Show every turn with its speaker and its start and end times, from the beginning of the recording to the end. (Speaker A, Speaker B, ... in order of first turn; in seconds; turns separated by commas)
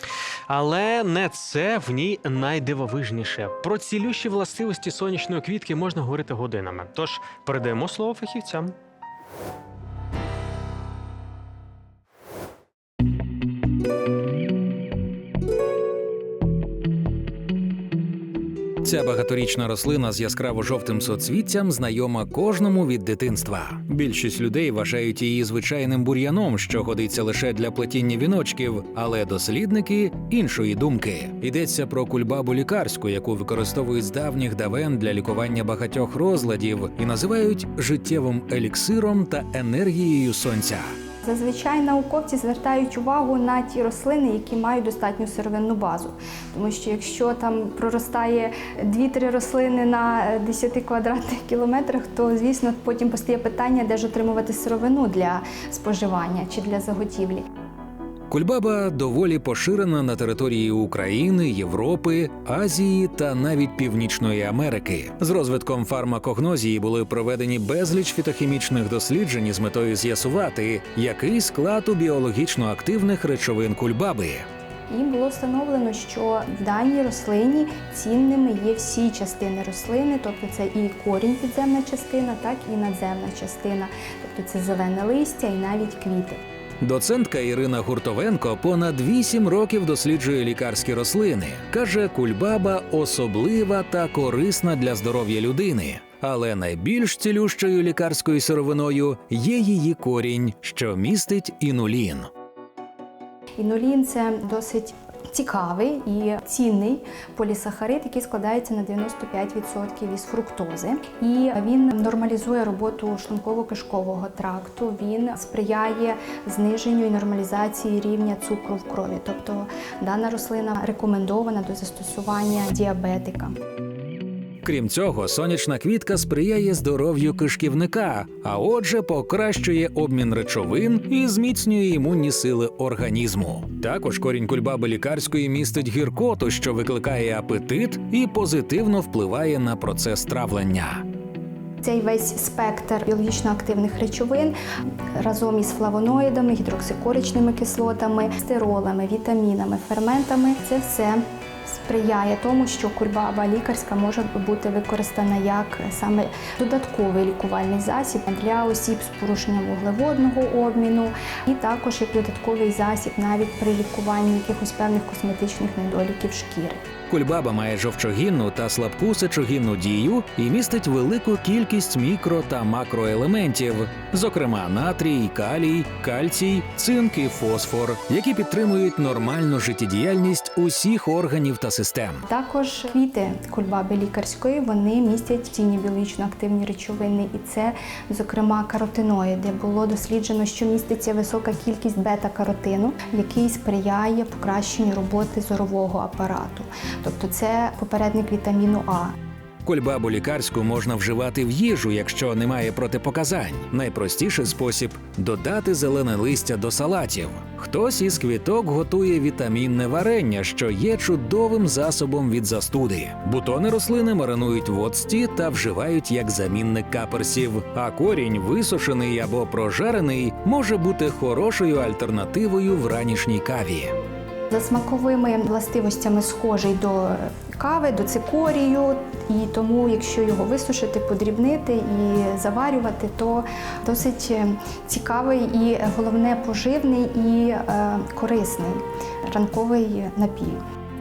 Speaker A: 0.5-8.7, Speaker B: 18.8-40.9, Speaker C: 41.2-57.4, Speaker B: 58.3-74.5, Speaker C: 74.9-86.4, Speaker B: 86.8-102.3, Speaker C: 103.6-123.5, Speaker B: 124.6-141.0, Speaker C: 141.8-144.6, Speaker C: 145.2-166.8, Speaker B: 167.1-182.2, Speaker C: 182.2-199.1, Speaker B: 199.6-223.9, Speaker C: 224.5-240.6